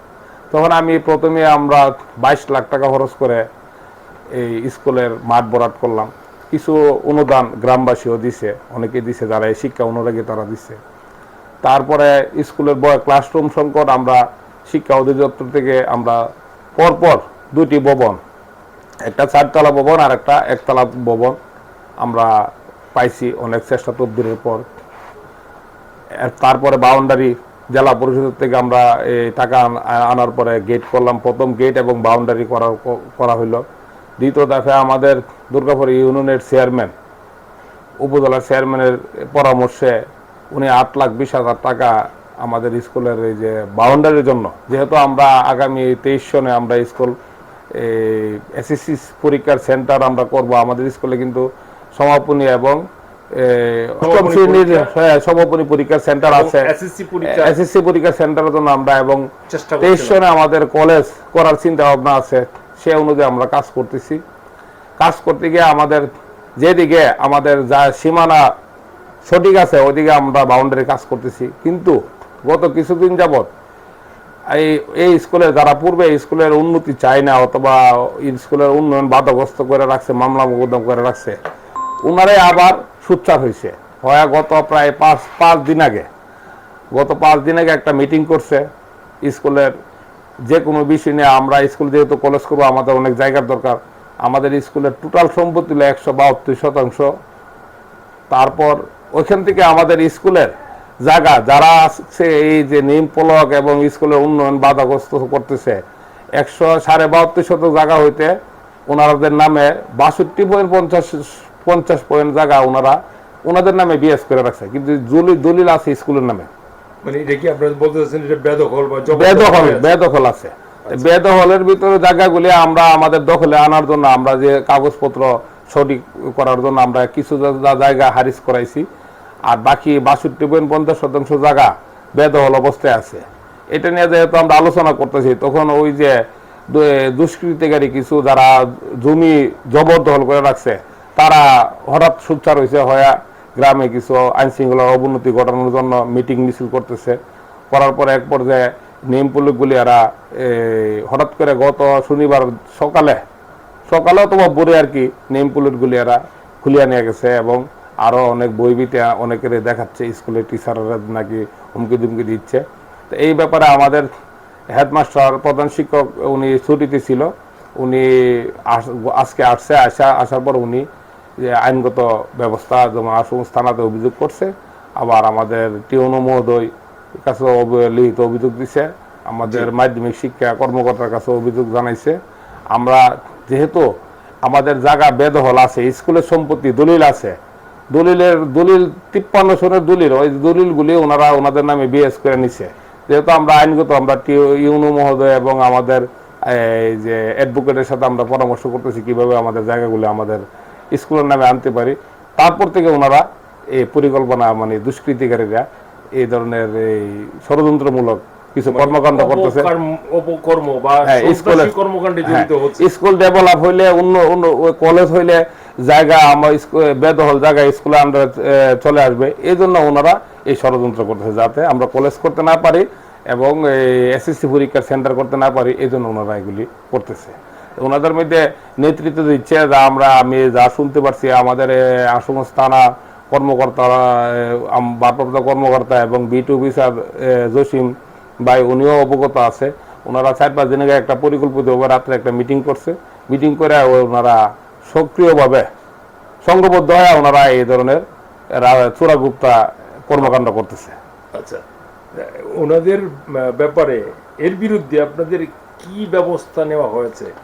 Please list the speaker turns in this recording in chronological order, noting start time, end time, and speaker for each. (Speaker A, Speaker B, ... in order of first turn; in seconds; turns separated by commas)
Speaker A: 0.5-3.5, Speaker A: 4.3-10.8, Speaker A: 11.6-16.2, Speaker A: 16.8-18.2, Speaker A: 19.0-21.4, Speaker A: 22.0-22.3, Speaker A: 22.9-24.6, Speaker A: 26.2-33.6, Speaker A: 34.2-36.9, Speaker A: 38.0-40.0, Speaker A: 40.5-41.9, Speaker A: 42.4-47.1, Speaker A: 47.7-51.4, Speaker A: 52.0-52.8, Speaker A: 53.3-56.7, Speaker B: 54.0-54.9, Speaker B: 56.2-57.6, Speaker A: 57.2-59.2, Speaker B: 59.5-60.2, Speaker A: 59.8-64.2, Speaker A: 65.0-66.1, Speaker A: 66.6-68.4, Speaker A: 69.2-73.5, Speaker A: 74.5-81.4, Speaker A: 82.0-86.1, Speaker A: 86.9-88.7, Speaker A: 89.2-89.7, Speaker A: 90.5-97.1, Speaker A: 98.3-100.5, Speaker A: 101.0-105.8, Speaker A: 106.4-108.3, Speaker A: 108.9-116.5, Speaker B: 117.0-120.0, Speaker A: 119.1-128.8, Speaker A: 129.5-147.2, Speaker A: 147.7-153.2, Speaker A: 153.9-164.1, Speaker A: 164.7-170.8, Speaker A: 171.4-182.2, Speaker A: 182.7-183.9, Speaker A: 184.4-187.3, Speaker A: 187.9-205.6, Speaker A: 206.2-209.7, Speaker B: 208.7-212.8, Speaker A: 211.1-245.7, Speaker A: 246.4-250.9, Speaker B: 251.3-251.6, Speaker B: 252.1-257.3